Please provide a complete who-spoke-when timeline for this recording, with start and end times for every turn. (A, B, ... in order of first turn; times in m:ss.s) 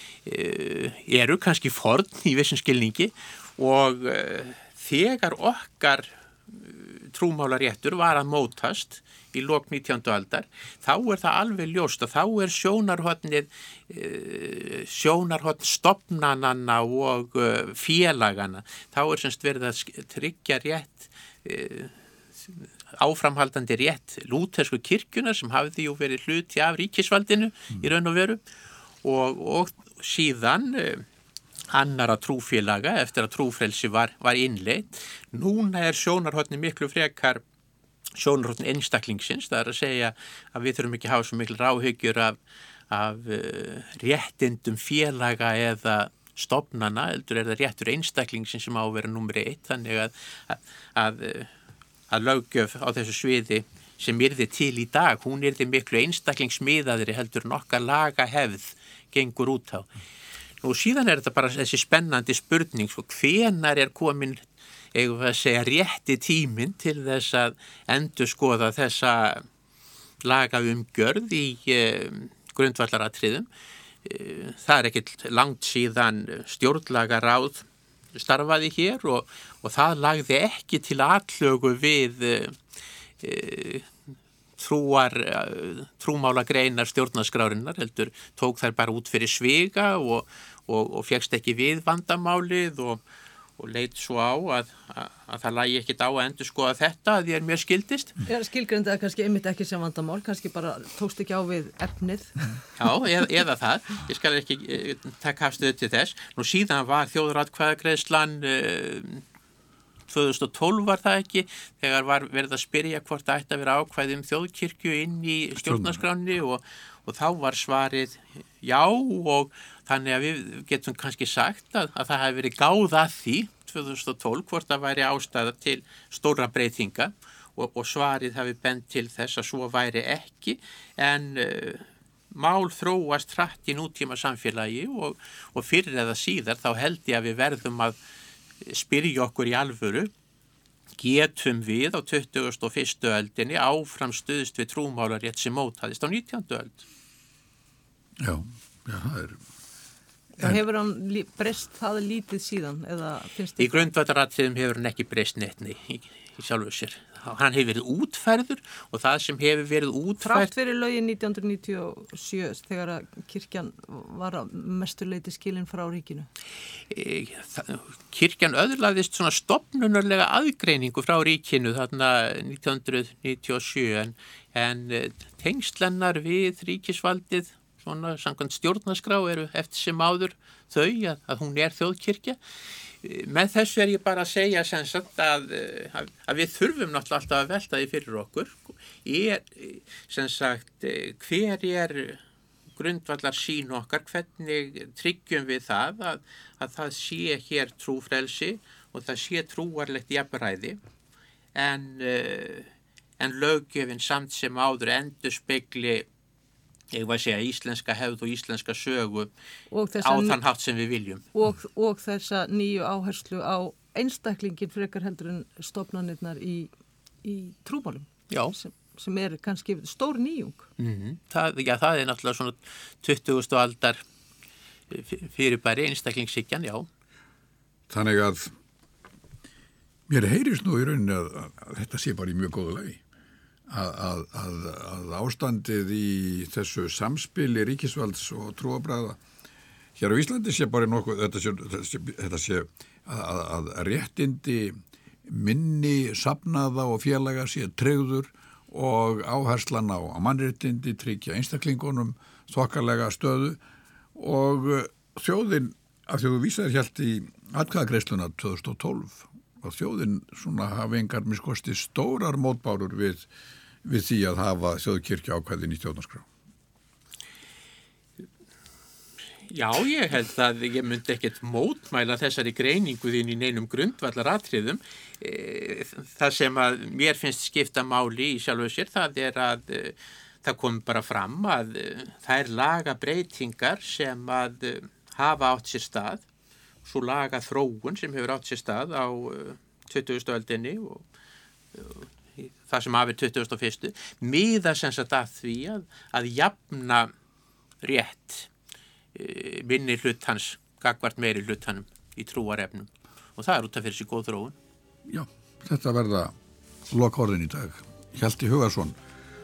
0:00.2-0:28.4 A
0:29.0-0:31.0 A
0:31.7-0:37.4 A
0:38.2-0:42.4 A
0:42.9-0:51.5 A
0:52.1-0:59.9 A
1:00.6-1:04.4 A
1:04.9-1:09.4 A
1:10.2-1:13.5 A
1:14.0-1:22.6 A
1:23.2-1:23.9 A
1:24.6-1:33.0 A
1:33.6-1:38.2 A
1:38.2-1:42.5 B
1:42.8-1:49.2 A
1:50.1-2:18.0 A
1:55.6-1:56.0 C
2:18.6-2:20.1 A
2:21.0-2:26.8 A
2:28.2-2:29.4 C
2:30.4-2:33.9 B
2:33.6-2:40.5 A
2:40.2-2:46.3 B
2:46.9-3:02.4 A
3:03.0-3:12.2 A
3:12.8-3:20.8 A
3:21.5-3:22.7 A
3:23.2-3:26.1 A
3:26.9-3:29.3 A
3:29.7-3:30.4 B
3:30.0-3:31.3 A
3:31.3-3:36.7 B
3:37.2-3:40.7 B
3:38.3-3:38.5 A
3:40.8-3:44.0 A
3:44.9-3:46.9 A
3:47.9-3:48.5 C
3:50.1-3:53.0 C
3:53.7-3:59.2 C
4:00.0-4:13.6 C
4:14.1-4:23.3 C
4:23.8-4:26.3 C
4:29.5-4:46.2 A
4:46.8-4:51.0 A
4:51.7-4:57.1 A
4:57.8-4:58.5 A
4:59.1-5:04.6 A
5:05.1-5:06.3 C
5:06.9-5:09.0 C